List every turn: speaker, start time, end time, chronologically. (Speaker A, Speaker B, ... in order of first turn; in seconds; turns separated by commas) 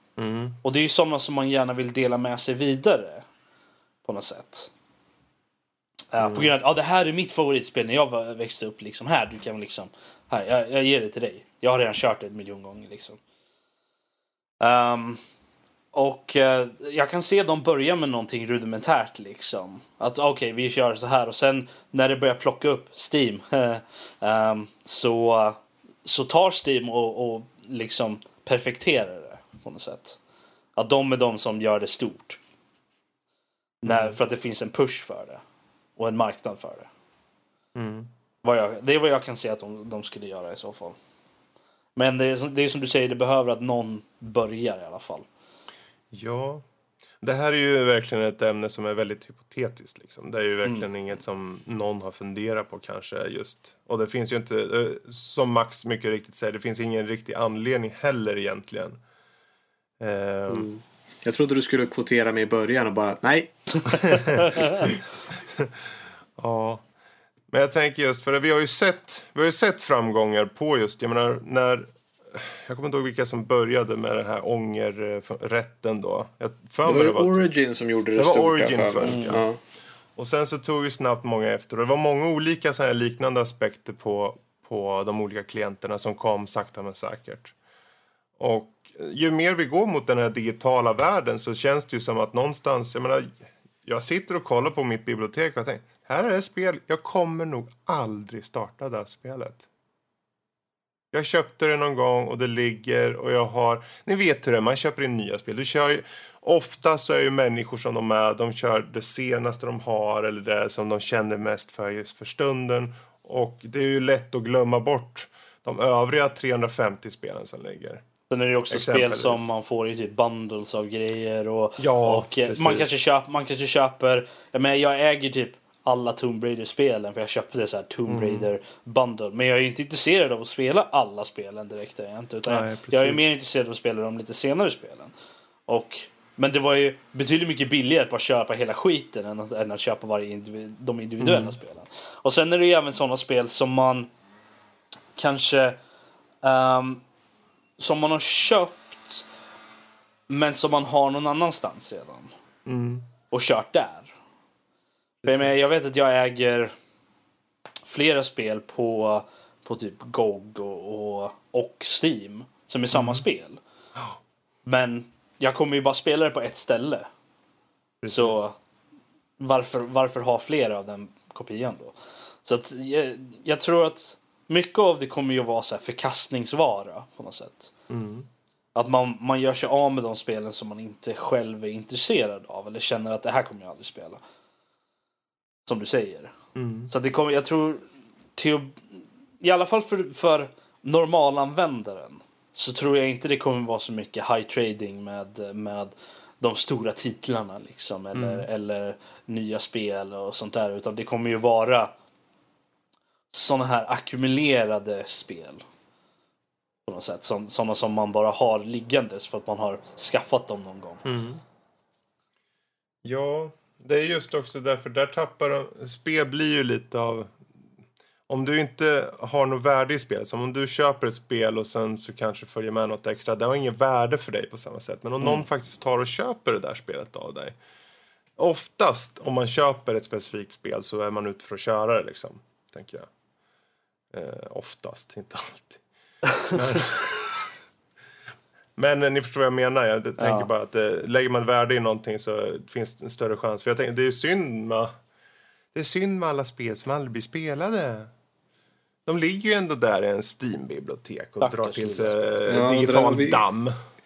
Speaker A: 0.2-0.6, Speaker B: 0.6-3.2, Speaker B: 4.0-4.7, Speaker B: 6.1-13.2, Speaker A: 6.2-6.5, Speaker B: 14.6-15.2, Speaker B: 15.9-30.2, Speaker B: 30.8-32.4, Speaker B: 33.8-35.4, Speaker A: 33.9-34.2, Speaker B: 36.0-36.9, Speaker A: 37.8-38.1, Speaker B: 38.4-41.0, Speaker B: 42.0-45.3, Speaker A: 46.1-46.6, Speaker A: 47.2-59.0, Speaker A: 60.0-60.7, Speaker C: 61.2-64.2, Speaker A: 64.2-64.6, Speaker A: 66.4-66.8, Speaker A: 67.5-77.5, Speaker C: 76.8-79.6, Speaker A: 78.2-79.4, Speaker B: 79.0-79.4, Speaker A: 80.2-87.5, Speaker A: 88.4-99.6, Speaker A: 101.1-118.0, Speaker B: 118.3-135.1, Speaker A: 118.7-119.5, Speaker A: 121.8-123.0, Speaker A: 128.1-128.5, Speaker A: 132.5-133.3, Speaker B: 135.7-144.1, Speaker A: 141.2-141.6, Speaker B: 145.2-145.8, Speaker B: 146.4-147.0, Speaker B: 147.8-149.3, Speaker B: 150.3-152.3, Speaker A: 152.7-153.1, Speaker B: 153.3-154.1, Speaker A: 155.2-155.7, Speaker B: 155.2-156.7, Speaker B: 157.9-163.6, Speaker A: 162.9-163.2, Speaker B: 164.7-167.1, Speaker A: 168.0-168.4, Speaker B: 168.1-168.6, Speaker B: 169.4-177.7, Speaker A: 177.9-178.3, Speaker B: 178.8-184.2, Speaker B: 185.7-186.3, Speaker A: 186.6-186.9, Speaker B: 186.9-187.8, Speaker B: 188.4-188.8, Speaker B: 189.4-201.9, Speaker A: 198.1-198.5, Speaker B: 203.3-205.6, Speaker B: 206.9-211.0, Speaker A: 211.1-211.4, Speaker A: 213.0-217.3, Speaker A: 218.3-227.6, Speaker A: 228.4-233.1, Speaker A: 234.1-235.8, Speaker A: 236.4-237.4, Speaker A: 238.8-244.9, Speaker B: 240.2-240.5, Speaker A: 245.7-248.1, Speaker A: 249.1-253.8, Speaker B: 251.4-252.2, Speaker C: 252.5-253.4